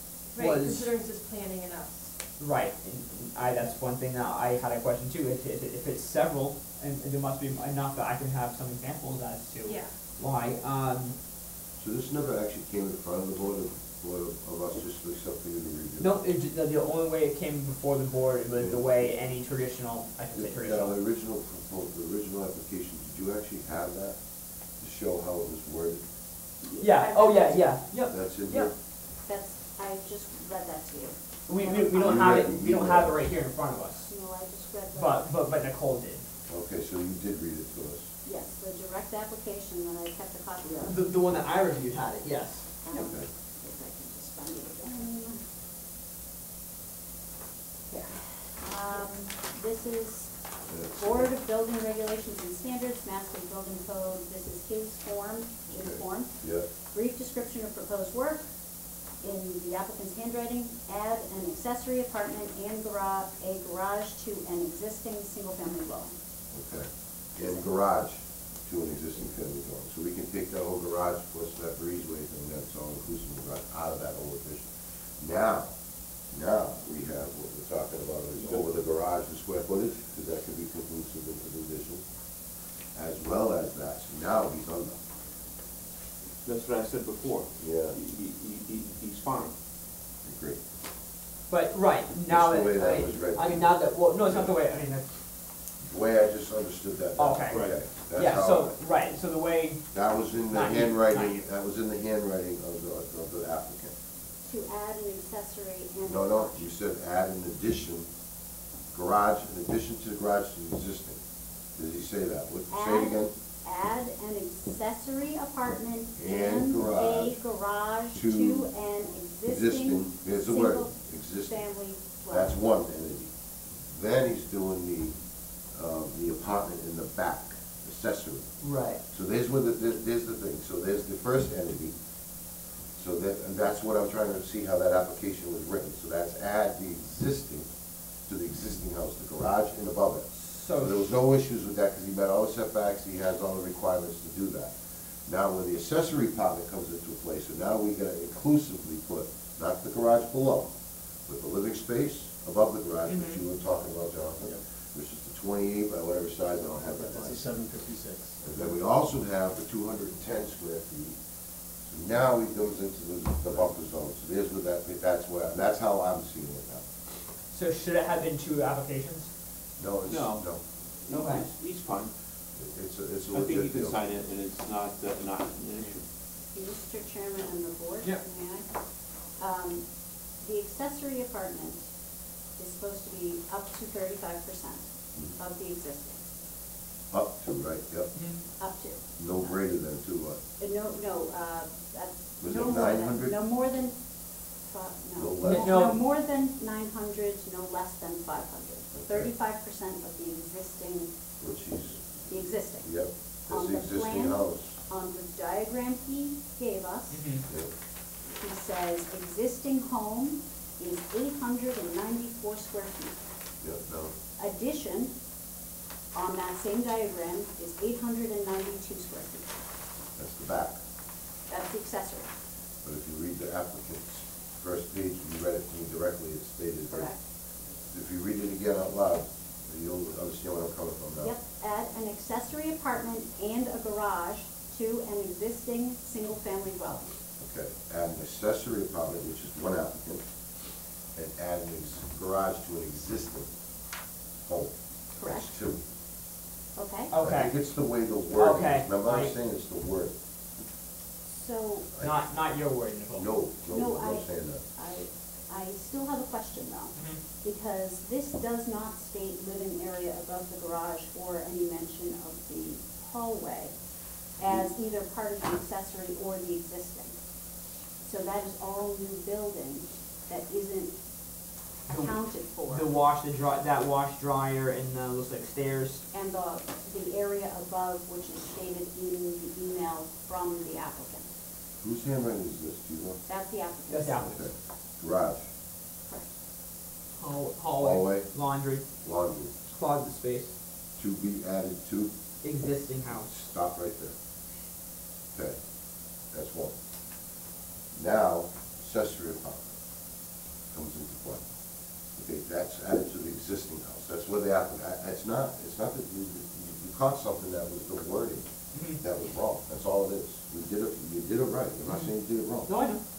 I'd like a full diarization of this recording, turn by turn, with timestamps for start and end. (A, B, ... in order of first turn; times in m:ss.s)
0:00.3-0:02.1 A
0:00.4-0:00.9 B
0:02.4-0:11.2 B
0:09.6-0:10.0 A
0:11.8-0:16.2 C
0:16.0-0:21.0 B
0:18.5-0:19.1 C
0:20.3-0:24.2 C
0:24.8-0:26.0 C
0:26.6-0:27.6 D
0:26.8-0:28.7 B
0:28.1-0:28.7 C
0:29.3-0:32.4 D
0:31.5-0:34.1 B
0:31.9-0:33.4 C
0:34.1-0:35.2 D
0:34.9-0:36.2 B
0:36.5-0:38.1 C
0:38.2-0:41.0 D
0:40.8-0:42.9 B
0:42.8-0:45.4 D
0:42.9-0:43.3 C
0:48.5-0:50.3 D
0:50.7-0:51.3 C
0:51.0-0:58.5 D
0:55.7-0:56.7 C
0:59.2-1:06.2 D
1:06.5-1:15.7 C
1:07.4-1:07.7 D
1:16.3-1:22.0 C
1:22.9-1:25.0 C
1:26.4-1:29.5 E
1:27.6-1:28.0 C
1:30.2-1:30.6 C
1:31.5-1:35.0 B
1:32.3-1:34.5 C
1:35.8-1:38.7 C
1:37.2-1:39.8 B
1:37.5-1:37.8 E
1:39.9-1:44.0 C
1:40.5-1:41.4 B
1:44.4-1:46.7 D
1:46.0-1:48.1 C
1:48.9-1:51.2 C
1:51.8-1:53.3 C
1:52.7-2:01.0 D
1:56.2-1:57.4 C
1:58.1-1:58.7 C
1:59.5-2:01.6 C
2:01.5-2:02.6 D
2:02.3-2:03.3 C
2:03.9-2:05.2 C
2:05.7-2:08.5 C
2:08.6-2:09.0 B
2:09.1-2:12.0 C
2:13.0-2:17.7 C
2:18.3-2:24.7 C
2:20.3-2:20.9 B
2:25.3-2:30.7 C
2:31.3-2:37.4 C
2:33.1-2:33.4 B
2:36.6-2:38.7 F
2:38.4-2:41.2 C
2:41.9-2:46.9 C
2:47.5-2:49.3 B
2:49.8-2:50.6 C
2:50.1-2:50.4 E
2:51.0-2:52.1 E
2:51.1-2:51.4 B
2:52.6-2:54.0 C
2:53.3-2:56.0 E
2:56.5-2:58.7 D
2:59.4-2:59.9 D
3:00.4-3:01.8 D
3:02.6-3:04.9 D
3:05.4-3:06.2 D
3:07.1-3:08.1 C
3:08.1-3:08.4 B
3:08.6-3:09.6 D
3:09.2-3:10.4 C
3:10.6-3:14.0 D
3:12.4-3:13.4 C
3:14.6-3:21.2 D
3:15.2-3:15.8 C
3:15.4-3:16.0 B
3:19.0-3:19.3 C
3:21.4-3:22.0 C
3:22.3-3:22.9 D
3:22.8-3:24.8 C
3:23.5-3:27.2 D
3:27.1-3:27.4 B
3:28.4-3:33.2 D
3:33.6-3:34.1 C
3:34.4-3:35.1 D
3:36.1-3:39.5 D
3:40.2-3:40.8 C
3:41.5-3:42.3 D
3:42.8-3:47.1 C
3:46.9-3:47.2 D
3:47.9-3:51.4 C
3:51.2-3:57.1 D
3:57.4-4:00.2 C
4:01.1-4:03.5 C
4:04.4-4:05.8 C
4:05.2-4:05.5 D
4:06.8-4:07.1 D
4:07.1-4:07.5 B
4:07.2-4:10.1 C
4:08.3-4:09.3 B
4:11.3-4:11.9 D
4:12.0-4:13.3 B
4:13.1-4:14.6 C
4:13.7-4:14.2 D
4:14.8-4:23.7 D
4:17.0-4:17.2 B
4:24.4-4:27.2 D
4:24.4-4:24.7 C
4:28.0-4:30.9 D
4:31.9-4:32.1 B
4:31.9-4:32.9 D
4:32.7-4:36.0 B
4:36.1-4:41.3 D
4:41.8-4:43.2 C
4:43.3-4:44.3 D
4:43.9-4:44.3 B
4:44.0-4:45.5 C
4:47.2-4:48.9 B
4:47.8-4:48.3 C
4:49.0-4:49.6 C
4:49.7-4:50.6 B
4:51.0-4:52.1 C
4:52.4-4:53.3 B
4:53.1-4:54.2 C
4:56.3-4:56.7 C
4:57.9-4:59.7 C
5:00.7-5:01.4 C
5:02.1-5:12.7 C
5:08.7-5:09.0 B
5:12.7-5:13.0 B